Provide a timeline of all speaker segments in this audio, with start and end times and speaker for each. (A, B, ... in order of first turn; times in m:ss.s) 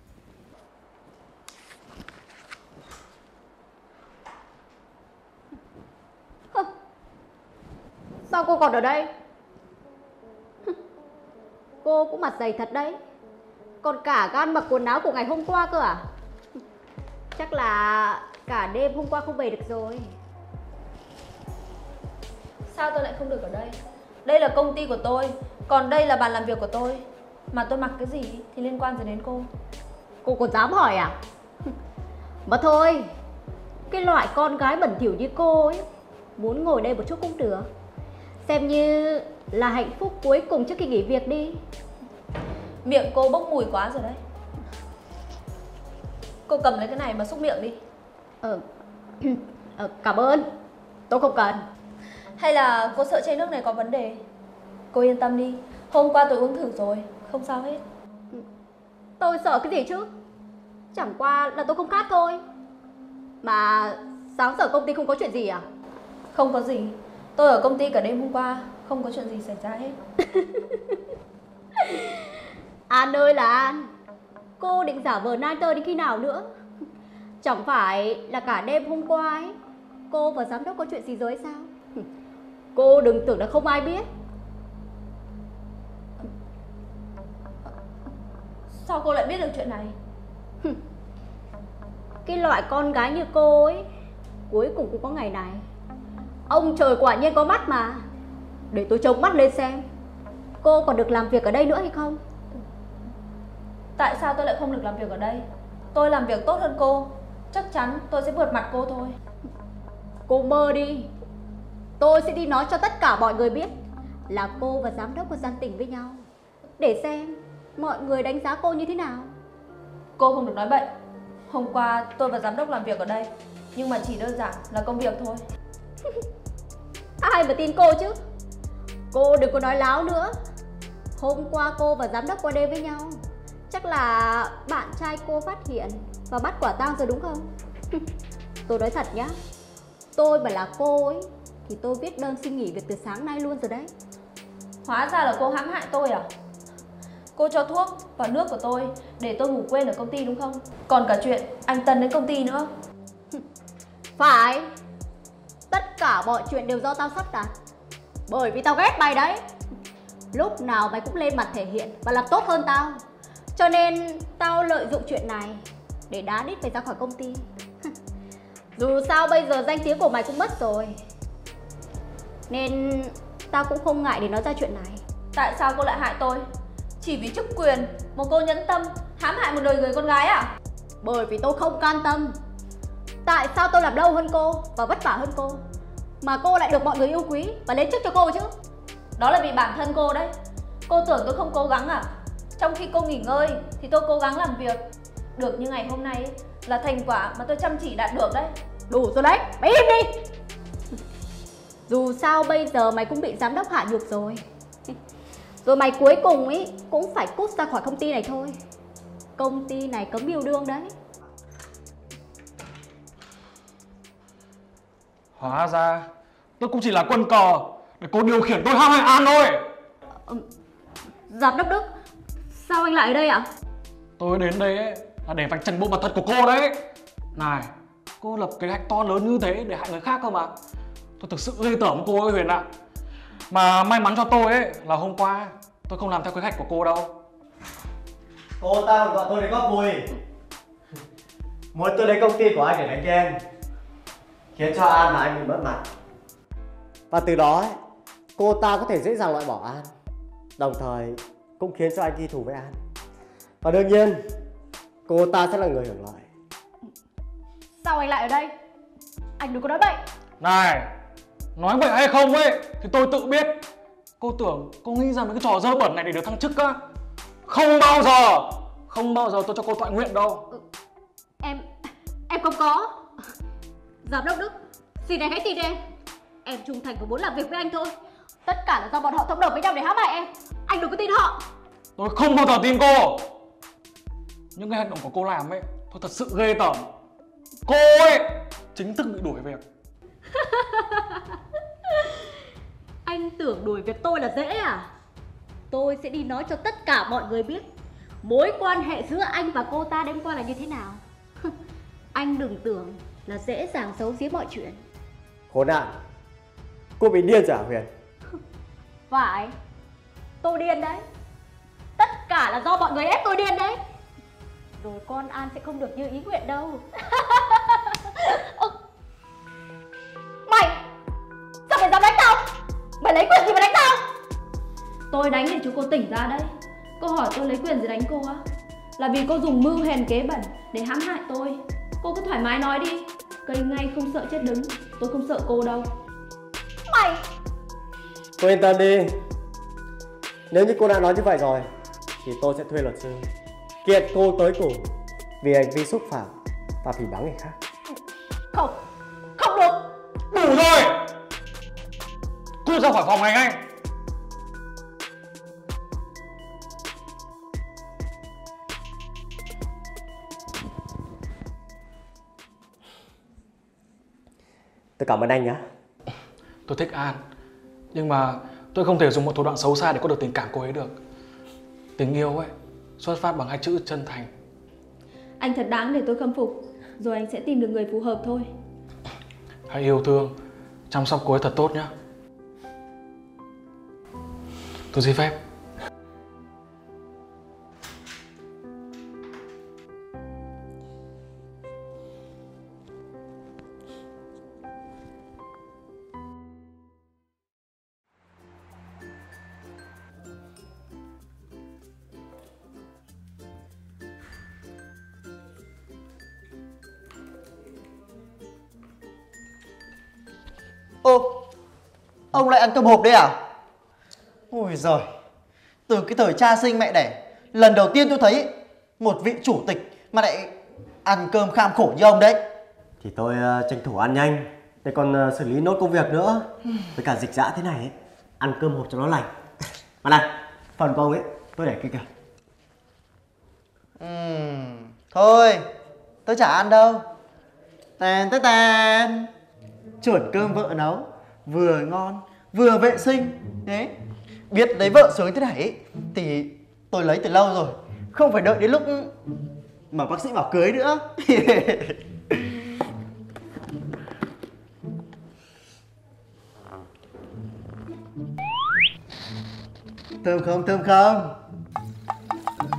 0:08.3-0:09.1 A
0:11.8-0:13.0 A
0:13.8-0:16.0 A
0:17.4-0:20.1 A
0:22.7-0:29.5 B
0:30.2-0:31.2 A
0:32.5-0:33.1 A
0:33.9-0:35.8 A
0:36.4-0:37.7 A
0:38.4-0:41.6 A
0:42.8-0:44.2 B
0:46.5-0:47.8 B
0:49.2-0:50.5 A
0:51.1-0:51.6 A
0:52.4-0:54.2 B
0:54.9-0:57.8 B
0:59.2-1:00.1 A
1:00.9-1:02.4 A
1:03.4-1:05.6 A
1:06.3-1:10.0 B
1:10.4-1:10.8 A
1:11.8-1:12.2 A
1:12.9-1:13.9 A
1:14.6-1:16.5 A
1:17.4-1:19.5 A
1:20.1-1:22.1 A
1:22.8-1:24.0 A
1:28.8-1:30.0 B
1:32.2-1:33.8 A
1:34.5-1:35.6 A
1:36.5-1:38.0 A
1:38.7-1:39.8 A
1:40.6-1:42.2 A
1:44.0-1:49.2 B
1:50.3-1:51.1 A
1:52.0-1:53.7 A
1:54.3-1:56.2 A
1:56.8-1:59.3 A
2:00.2-2:00.9 B
2:01.5-2:05.4 B
2:07.2-2:08.2 A
2:09.1-2:10.3 A
2:11.2-2:18.0 A
2:18.7-2:19.4 A
2:20.2-2:23.9 A
2:24.8-2:26.3 B
2:27.4-2:32.7 B
2:34.2-2:34.7 A
2:35.7-2:37.5 A
2:38.3-2:39.4 A
2:40.3-2:43.0 A
2:43.6-2:47.9 A
2:48.8-2:51.0 A
2:52.5-2:55.0 A
2:55.4-2:56.5 B
2:57.0-3:00.5 B
3:01.0-3:02.4 A
3:03.2-3:05.6 A
3:06.2-3:08.5 A
3:09.2-3:10.3 B
3:10.9-3:14.8 B
3:15.4-3:18.5 B
3:18.9-3:20.2 A
3:21.9-3:24.9 A
3:25.6-3:28.6 A
3:29.4-3:30.9 A
3:35.4-3:36.1 C
3:36.6-3:39.6 C
3:41.3-3:41.9 A
3:42.5-3:43.5 A
3:44.2-3:46.8 C
3:47.4-3:50.5 C
3:51.2-3:52.6 C
3:53.5-3:57.1 C
3:58.6-4:00.1 D
4:01.7-4:03.4 D
4:04.5-4:05.8 D
4:07.1-4:07.8 D
4:08.4-4:09.9 D
4:10.6-4:12.8 D
4:13.6-4:14.2 D
4:15.1-4:16.3 D
4:17.8-4:18.5 A
4:19.4-4:20.0 A
4:20.4-4:20.9 C
4:21.6-4:23.6 C
4:24.2-4:26.8 C
4:27.5-4:30.4 C
4:32.3-4:33.0 A
4:34.0-4:35.8 A
4:36.4-4:41.4 A
4:42.0-4:43.3 C
4:44.6-4:46.9 C
4:47.7-4:49.6 C
4:50.3-4:51.4 A
4:53.0-4:54.9 A
4:55.7-4:57.7 A
4:58.2-5:01.5 A
5:02.1-5:04.8 A
5:05.5-5:05.9 D
5:07.0-5:07.9 D
5:09.1-5:09.6 A
5:10.4-5:11.0 A
5:12.0-5:13.8 A
5:14.8-5:18.8 A
5:20.5-5:20.8 A
5:21.7-5:22.5 A
5:23.0-5:24.0 A
5:25.1-5:28.4 B
5:29.0-5:35.9 B
5:36.9-5:37.2 A
5:38.4-5:39.2 D
5:40.5-5:41.7 D
5:42.2-5:43.3 D
5:43.8-5:44.9 D
5:45.4-5:47.6 D
5:49.4-5:49.9 A
5:50.3-5:51.0 C
5:52.6-5:53.6 C
6:05.0-6:05.6 D
6:06.7-6:07.2 C
6:07.9-6:11.0 C
6:12.0-6:14.3 C
6:15.4-6:18.5 B
6:19.7-6:20.4 C
6:20.9-6:21.9 C
6:24.9-6:25.4 C
6:51.0-6:51.4 E
6:52.3-6:53.4 E
6:54.5-6:55.1 E
6:55.9-7:00.5 E
7:01.0-7:02.4 E
7:03.0-7:09.3 D
7:10.0-7:12.1 D
7:14.0-7:15.7 E
7:16.3-7:17.1 E
7:18.0-7:19.3 E
7:20.0-7:23.9 E
7:24.5-7:29.1 E
7:29.9-7:32.0 E
7:40.2-7:41.4 E